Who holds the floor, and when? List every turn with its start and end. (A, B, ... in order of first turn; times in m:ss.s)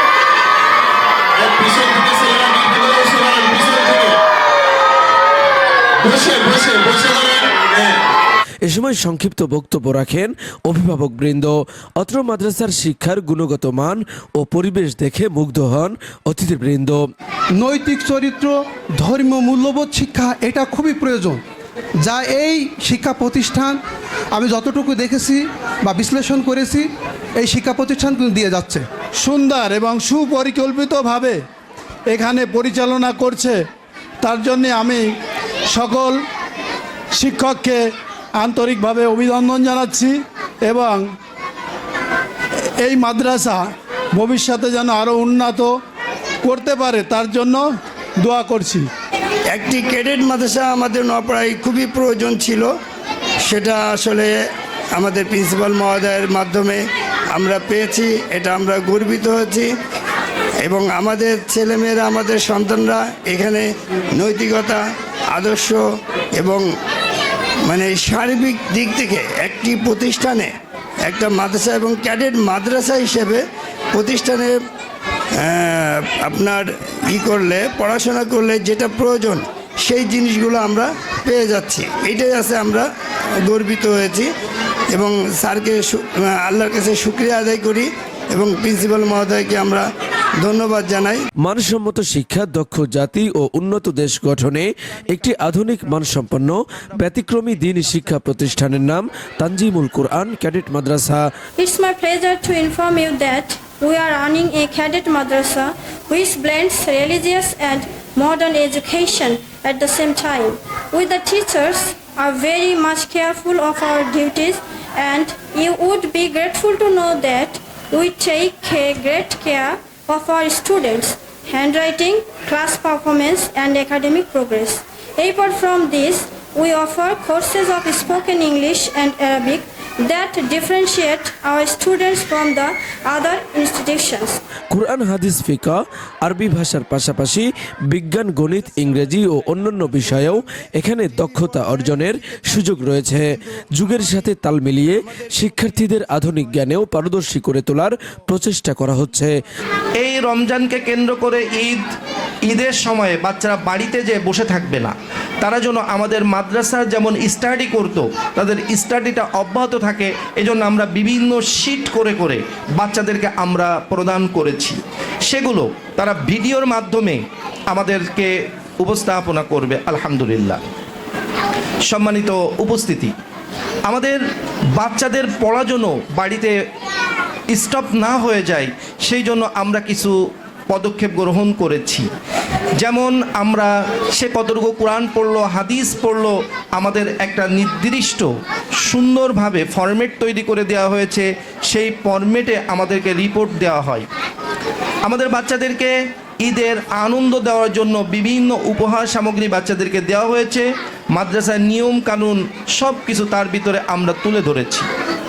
0:01.4-0:04.1 A
0:06.0-0:07.9 A
0:08.6-0:17.1 B
0:17.6-0:21.4 C
0:22.0-0:23.8 C
0:24.4-0:26.9 C
0:27.4-0:28.9 C
0:29.2-0:31.4 D
0:32.1-0:33.6 D
0:34.2-0:35.1 D
0:35.7-0:36.2 D
0:37.2-0:37.8 D
0:38.4-0:41.1 D
0:42.8-0:45.7 D
0:46.4-0:47.6 D
0:48.2-0:48.9 D
0:49.5-0:52.7 E
0:53.5-0:54.3 E
0:55.0-0:56.8 E
0:57.3-0:59.7 E
1:00.6-1:04.8 E
1:05.3-1:05.8 E
1:06.4-1:06.6 E
1:07.7-1:10.5 E
1:11.1-1:13.4 E
1:14.0-1:14.6 E
1:15.4-1:22.9 E
1:23.4-1:24.3 E
1:24.9-1:29.8 E
1:30.4-1:31.2 E
1:31.4-1:41.3 B
1:41.6-2:14.4 F
2:14.7-2:29.4 B
2:30.0-2:31.8 G
2:32.5-2:50.6 G
2:51.9-2:53.1 G
2:53.9-2:54.2 G
2:54.8-2:56.5 G
2:57.5-3:00.2 G
3:00.7-3:02.1 G
3:02.8-3:08.3 G
3:08.9-3:14.1 G
3:15.1-3:24.9 G